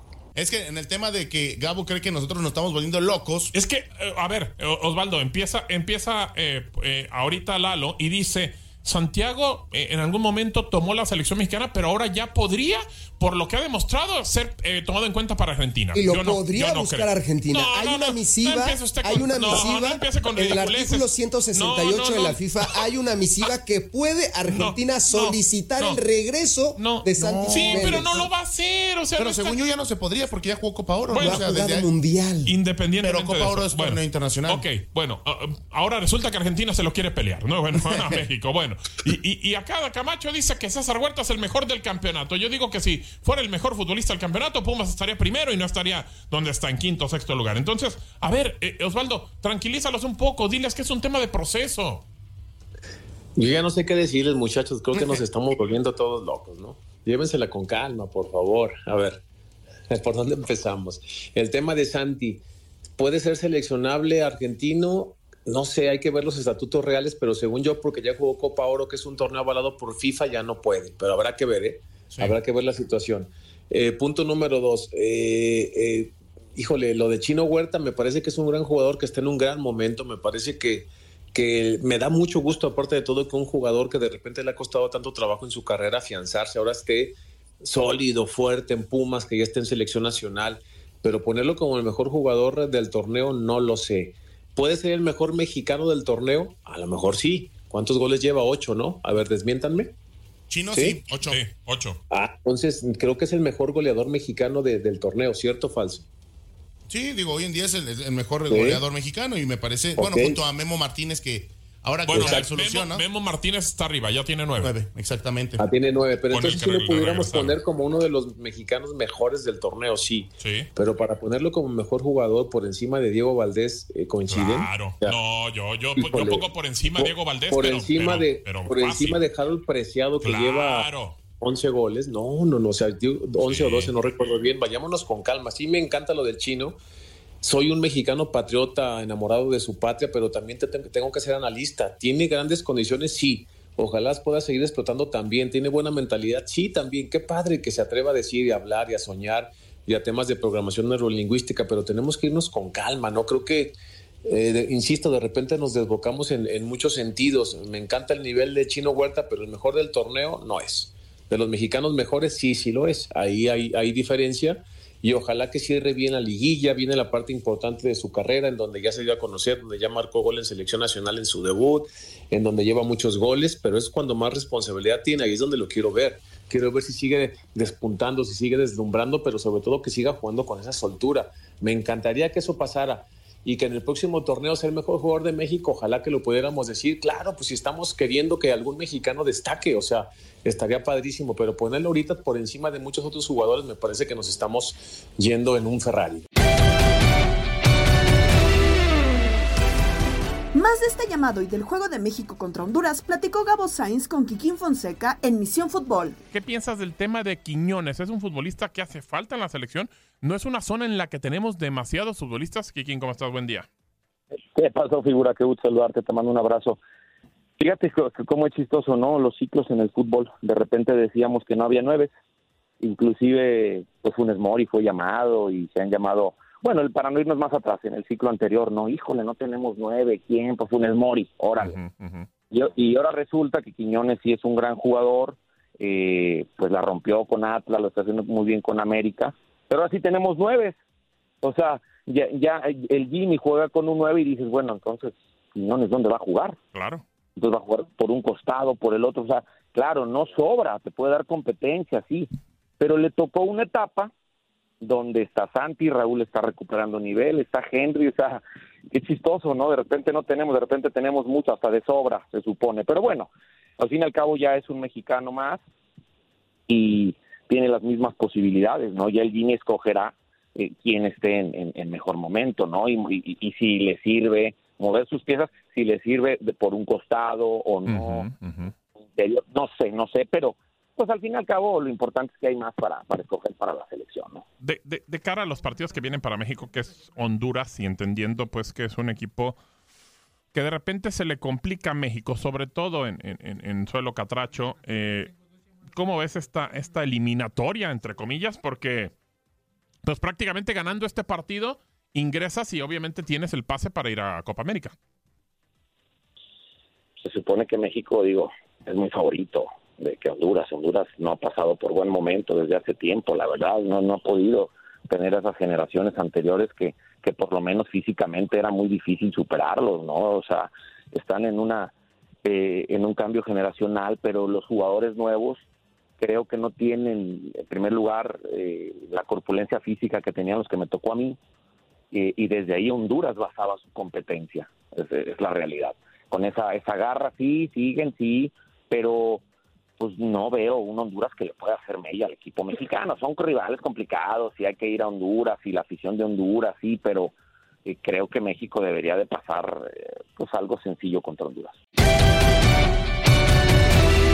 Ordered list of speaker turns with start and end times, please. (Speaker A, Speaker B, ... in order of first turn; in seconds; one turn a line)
Speaker A: 0.3-3.5
Speaker B: 3.5-22.9
Speaker C: 15.9-28.2
Speaker B: 24.5-26.0
Speaker B: 26.8-29.6
Speaker A: 27.4-27.8
Speaker A: 29.2-31.9
Speaker B: 31.1-31.5
Speaker C: 31.2-32.5
Speaker B: 32.4-52.0
Speaker A: 33.0-34.6
Speaker D: 53.4-59.2
Speaker D: 59.9-62.4
Speaker D: 63.0-99.9
Speaker A: 100.5-101.4
Speaker D: 100.7-101.0
Speaker B: 101.2-102.0
Speaker D: 102.1-106.0
Speaker A: 106.9-113.0
Speaker D: 108.5-108.8
Speaker D: 110.0-110.4
Speaker B: 112.1-114.7
Speaker D: 112.1-112.4
Speaker A: 114.6-115.6
Speaker D: 115.6-125.2
Speaker B: 116.3-117.6
Speaker B: 120.4-120.7
Speaker B: 124.3-129.2
Speaker D: 126.0-136.8
Speaker B: 130.2-131.2
Speaker B: 133.4-134.1
Speaker D: 137.4-196.3
Speaker E: 200.5-206.2
Speaker B: 206.3-213.7
Speaker F: 214.5-216.8
Speaker F: 217.6-222.1
Speaker F: 222.8-231.8
Speaker B: 231.6-232.3
Speaker F: 232.5-240.8
Speaker F: 241.4-246.6
Speaker B: 246.7-247.0
Speaker F: 247.4-254.1
Speaker F: 254.8-258.4
Speaker F: 258.9-263.3
Speaker F: 263.8-265.6
Speaker F: 266.7-278.2
Speaker B: 277.9-278.7
Speaker F: 279.1-284.4
Speaker B: 284.6-289.6
Speaker B: 290.5-295.3
Speaker B: 295.9-299.1
Speaker B: 300.0-304.9
Speaker F: 307.2-321.9
Speaker F: 322.4-325.6
Speaker F: 326.2-331.4
Speaker F: 332.1-339.4
Speaker F: 340.0-347.3
Speaker F: 347.9-351.8